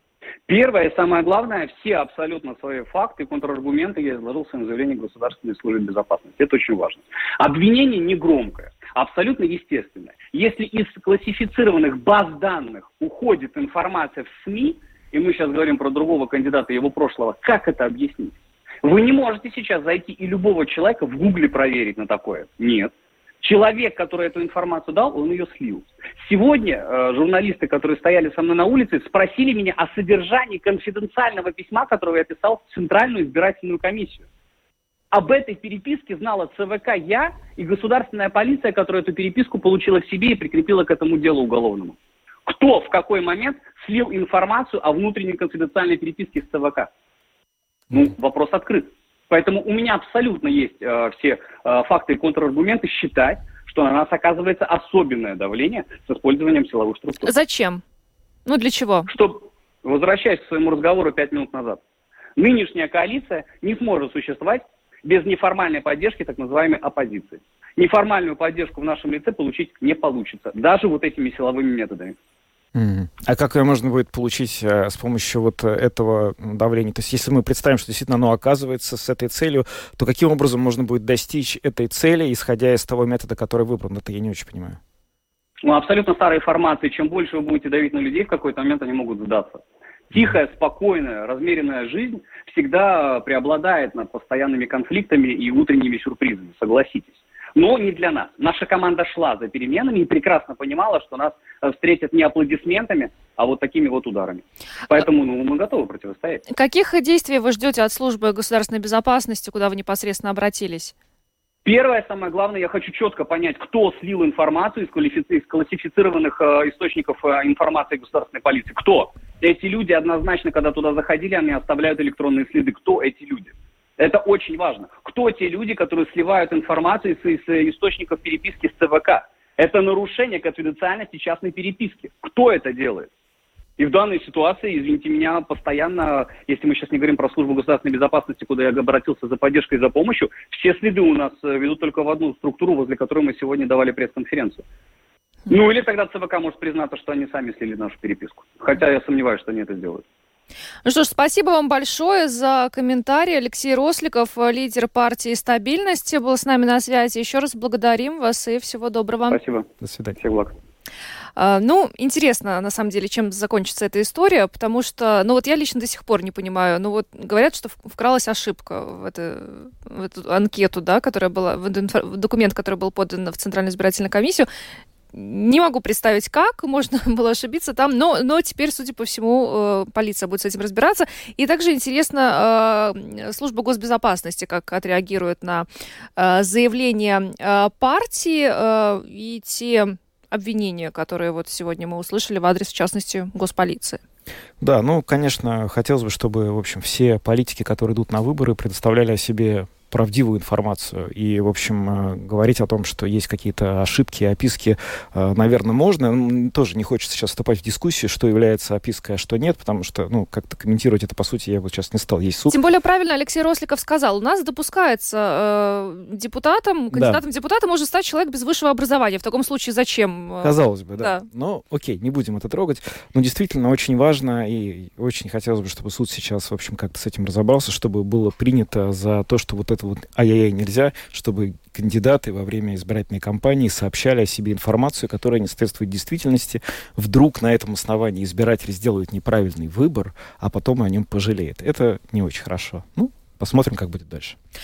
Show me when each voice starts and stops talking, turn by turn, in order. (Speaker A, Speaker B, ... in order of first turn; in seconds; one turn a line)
Speaker A: 0.5-34.3
Speaker A: 35.1-46.9
Speaker A: 47.9-57.3
Speaker B: 57.2-57.8
Speaker B: 58.5-59.1
Speaker A: 59.1-61.8
Speaker A: 62.4-72.2
Speaker C: 72.7-84.8
Speaker A: 85.6-89.6
Speaker A: 90.1-106.4
Speaker B: 106.5-110.9
Speaker A: 111.6-133.1
Speaker A: 133.8-144.6
Speaker A: 145.5-150.0
Speaker B: 150.8-159.4
Speaker A: 159.3-160.5
Speaker C: 159.8-160.2
Speaker B: 161.4-174.5
Speaker B: 175.1-194.0
Speaker C: 194.6-212.6
Speaker B: 212.5-221.2
Speaker C: 216.9-217.2
Speaker C: 220.4-244.3